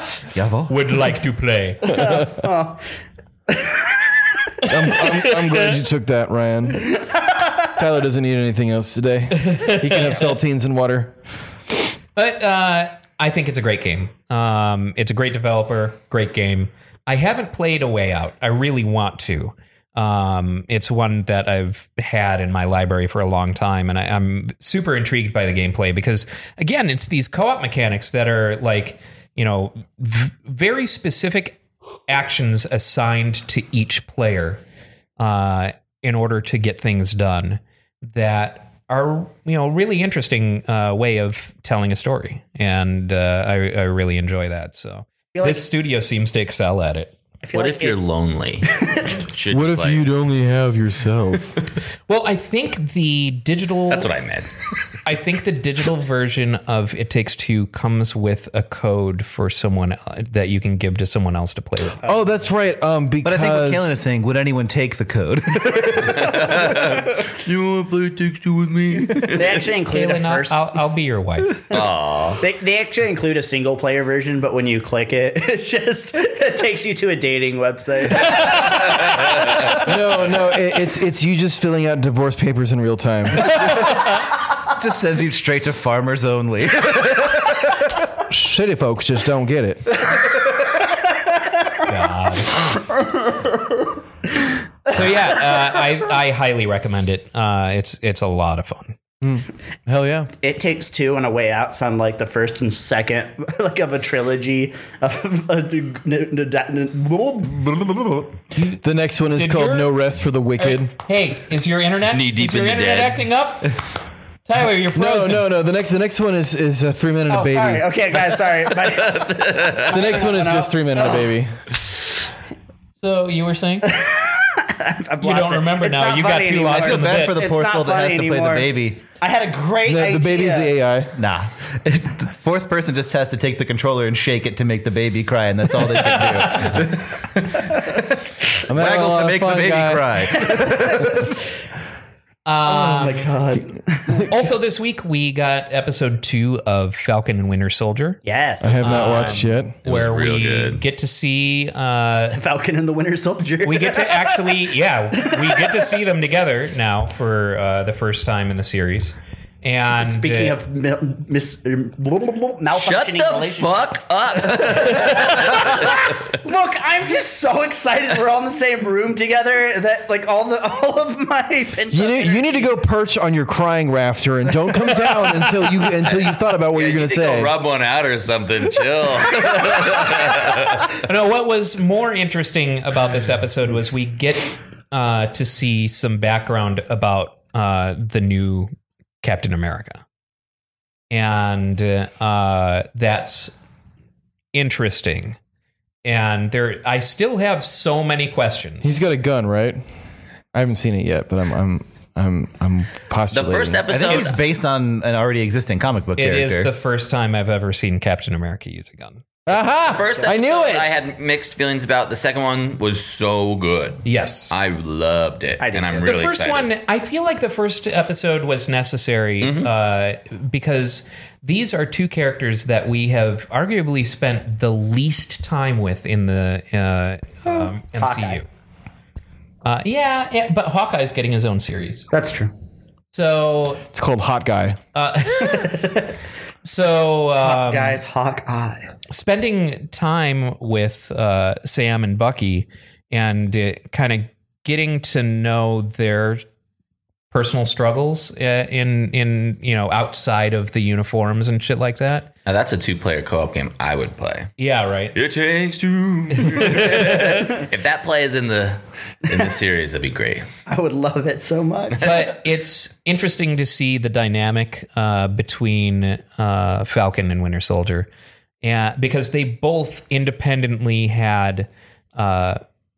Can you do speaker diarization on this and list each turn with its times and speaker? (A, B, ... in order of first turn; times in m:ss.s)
0:00.3-0:00.7 A
0:00.7-0:02.2 B
0:01.9-0:02.8 C
0:03.5-0:04.0 C
0:04.7-0:07.0 D
0:07.8-0:11.2 D
0:09.4-0:10.4 B
0:12.2-0:34.6 B
0:35.2-0:47.2 B
0:45.3-0:45.7 C
0:47.4-0:48.0 C
0:47.5-0:50.0 E
0:48.6-0:49.2 C
0:49.5-0:51.6 D
0:52.1-0:54.1 B
0:53.9-0:54.5 E
0:55.0-1:02.0 B
1:02.0-1:04.0 D
1:03.2-1:07.1 A
1:06.2-1:09.4 E
1:08.9-1:09.6 A
1:09.3-1:10.7 C
1:09.8-1:11.8 B
1:11.7-1:12.4 E
1:12.4-1:19.8 C
1:18.2-1:19.0 B
1:19.8-1:23.7 D
1:23.7-1:24.1 B
1:24.7-1:27.9 A
1:28.3-1:30.1 D
1:31.5-1:31.8 C
1:31.8-1:32.8 B
1:32.7-1:34.5 C
1:34.9-1:39.0 B
1:39.2-1:40.3 D
1:40.4-1:48.2 C
1:48.7-1:50.9 D
1:49.4-1:49.9 B
1:50.6-1:53.8 B
1:52.1-1:53.2 E
1:54.5-1:55.5 B
1:54.9-1:57.9 D
1:57.3-2:01.4 C
1:59.1-1:59.9 E
1:59.9-2:01.6 D
2:03.0-2:04.0 B
2:03.9-2:10.7 C
2:05.2-2:07.4 B
2:06.8-2:09.0 A
2:09.8-2:11.2 D
2:11.2-2:21.3 A
2:16.0-2:16.8 B
2:18.7-2:20.3 D
2:20.4-2:21.3 C
2:22.5-2:23.3 B
2:22.7-2:24.3 C
2:24.3-2:28.2 B
2:28.2-2:29.3 C
2:28.6-2:29.7 D
2:28.8-2:32.4 B
2:29.8-2:30.8 E
2:32.3-2:34.6 C
2:33.6-2:40.6 B
2:35.2-2:35.9 C
2:40.0-2:52.7 C
2:42.7-2:46.3 E
2:51.9-2:57.6 D
2:56.0-3:00.9 E
3:00.9-3:10.0 B
3:11.1-3:13.5 B
3:14.5-3:15.4 B
3:16.0-3:19.0 B
3:18.8-3:19.8 D
3:20.5-3:24.0 D
3:23.3-3:24.5 E
3:23.9-3:26.7 A
3:24.1-3:24.4 B
3:26.2-3:29.2 B
3:29.5-3:30.9 D
3:29.9-3:36.7 E
3:34.0-3:34.6 B
3:35.6-3:36.2 C
3:36.0-3:48.5 B
3:39.4-3:39.7 E
3:48.0-3:48.4 C
3:49.6-3:52.1 B
3:52.1-3:52.5 C
3:53.1-3:53.8 B
3:53.9-3:54.8 D
3:55.0-3:56.0 B
3:55.4-3:56.1 C
3:56.6-3:58.0 B
3:57.4-3:58.9 C
3:59.1-4:06.4 B
4:07.3-4:12.3 B
4:12.5-4:14.5 E
4:14.6-4:15.2 B
4:15.1-4:20.5 E
4:16.3-4:17.6 B
4:20.7-4:22.3 C
4:22.0-4:28.1 B
4:28.6-4:32.6 B